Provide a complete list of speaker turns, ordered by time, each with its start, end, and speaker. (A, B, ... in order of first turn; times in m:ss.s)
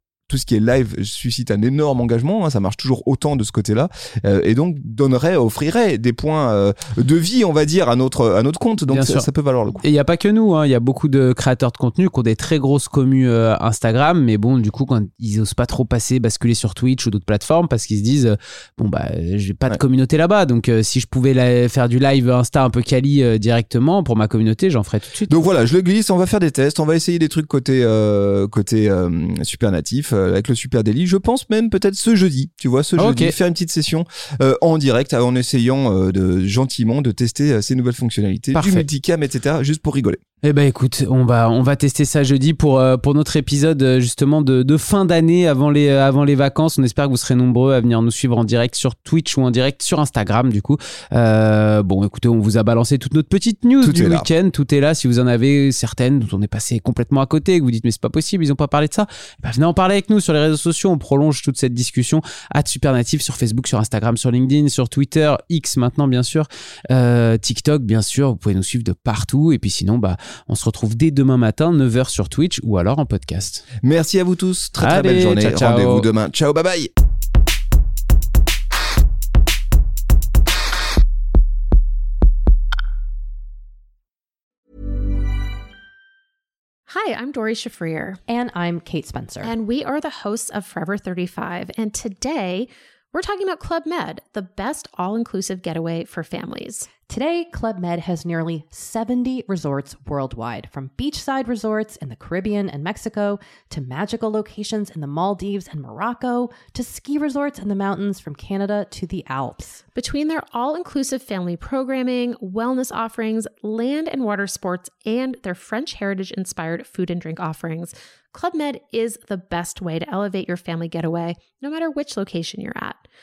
0:00.3-0:09.8 A
0:08.9-0:25.3 B
0:25.3-0:40.2 A
0:33.0-0:33.4 B
0:38.5-0:38.8 B
0:40.4-1:13.6 B
0:53.8-0:54.3 A
1:13.8-1:16.9 A
1:14.8-1:16.1 B
1:26.9-1:28.2 C
1:28.3-1:29.6 D
1:29.4-1:36.9 C
1:37.1-1:49.8 D
1:50.0-2:03.0 C